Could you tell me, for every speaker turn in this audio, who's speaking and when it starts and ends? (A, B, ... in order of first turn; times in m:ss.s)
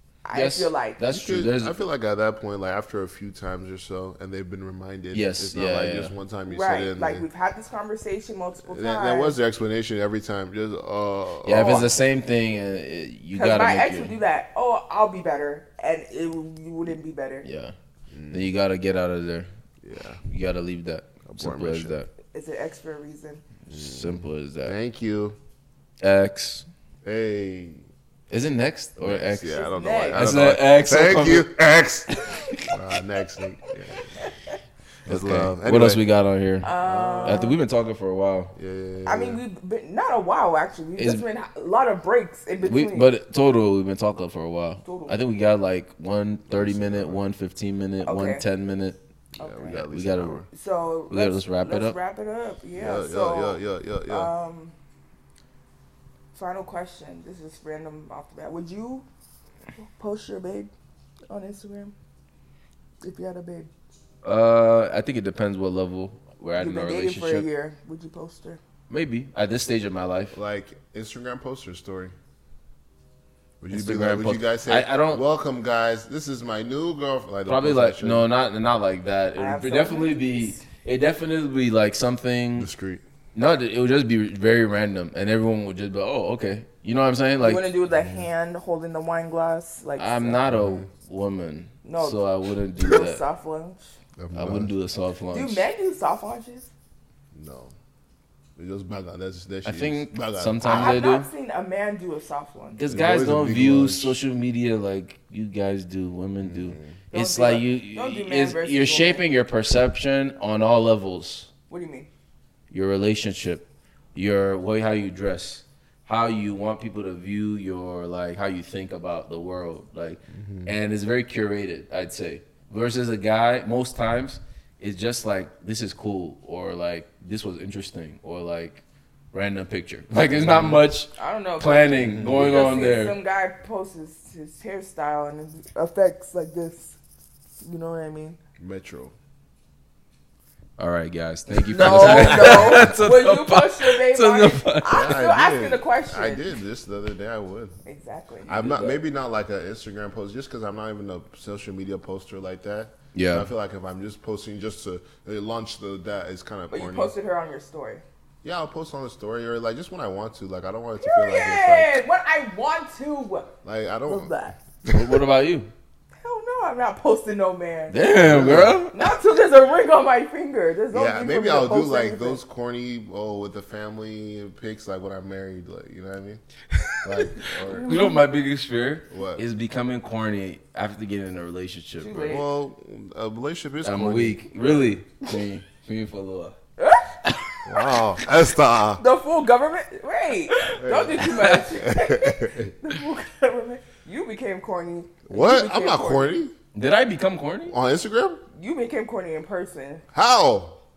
0:00.2-0:01.0 A
0:00.3-0:01.8 B
0:01.1-0:07.3 C
0:05.1-0:06.2 B
0:06.5-0:09.4 A
0:08.7-0:12.0 C
0:11.4-0:14.2 B
0:11.5-0:12.0 A
0:13.3-0:17.5 A
0:17.4-0:17.7 B
0:18.1-0:18.5 C
0:18.3-0:19.5 B
0:19.8-0:20.2 C
0:20.3-0:22.1 B
0:21.3-0:22.0 C
0:22.3-0:23.4 A
0:23.7-0:24.8 B
0:23.7-0:25.4 C
0:26.0-0:26.7 B
0:27.0-0:27.8 C
0:28.3-0:29.6 B
0:29.0-0:32.1 C
0:29.5-0:30.3 A
0:30.1-0:31.5 B
0:32.7-0:34.1 C
0:34.0-0:34.6 A
0:35.1-0:36.7 B
0:35.1-0:36.0 C
0:36.6-0:37.6 A
0:36.8-0:37.6 C
0:37.2-0:38.5 B
0:38.6-0:39.4 C
0:39.1-0:43.1 A
0:41.0-0:41.2 B
0:42.6-0:49.0 B
0:44.8-0:45.2 A
0:46.5-0:47.2 C
0:48.0-0:48.4 A
0:49.4-0:50.5 C
0:49.4-0:49.8 A
0:49.7-0:50.4 B
0:50.5-0:54.8 A
0:51.1-0:52.0 B
0:52.8-0:54.3 C
0:56.3-0:59.1 A
0:59.8-1:00.7 A
1:01.3-1:01.9 A
1:03.0-1:03.7 A
1:04.2-1:07.4 B
1:06.6-1:08.6 A
1:08.9-1:10.4 B
1:10.3-1:12.1 C
1:13.6-1:18.3 C
1:13.7-1:15.2 B
1:17.5-1:22.7 B
1:19.4-1:20.6 A
1:22.6-1:23.0 C
1:23.4-1:27.7 B
1:27.4-1:30.4 A
1:27.9-1:28.3 C
1:30.0-1:33.2 B
1:30.5-1:30.9 C
1:31.8-1:32.2 A
1:32.8-1:33.9 A
1:34.2-1:34.7 C
1:34.3-1:35.6 B
1:35.3-1:36.7 A
1:37.3-1:37.7 C
1:38.6-1:41.0 C
1:39.6-1:41.3 B
1:40.6-1:43.0 A
1:42.8-1:51.5 B
1:42.9-1:44.2 C
1:46.4-1:47.0 C
1:47.1-1:49.2 A
1:51.7-1:52.1 A
1:52.7-2:08.8 B
2:00.3-2:00.7 C
2:09.3-2:13.1 B
2:10.4-2:10.8 C
2:11.2-2:17.0 A
2:12.0-2:12.9 C
2:17.6-2:18.4 A
2:18.6-2:19.1 C
2:20.8-2:25.0 B
2:21.5-2:22.9 C
2:21.7-2:26.6 A
2:24.9-2:27.8 C
2:27.8-2:28.6 A
2:28.5-2:37.1 C
2:28.5-2:29.0 B
2:33.1-2:33.5 B
2:36.7-2:38.0 A
2:38.4-2:41.9 C
2:41.0-2:43.5 A
2:43.6-2:45.2 C
2:44.1-2:44.6 A
2:44.9-2:45.7 B
2:46.2-2:52.4 A
2:47.9-2:49.0 B
2:48.2-2:48.8 C
2:50.9-2:56.4 C
2:56.8-3:02.4 B
2:57.0-2:57.9 C
2:57.7-2:58.3 A
2:59.1-2:59.4 C
3:02.0-3:02.5 A
3:02.2-3:04.9 C
3:03.8-3:06.6 B
3:06.8-3:07.2 A
3:07.2-3:07.6 B
3:07.7-3:09.0 C
3:09.0-3:16.3 A
3:10.6-3:11.6 B
3:10.8-3:12.7 C
3:15.3-3:16.5 C
3:16.7-3:17.8 B
3:17.7-3:18.4 C
3:18.6-3:20.0 A
3:20.1-3:20.8 C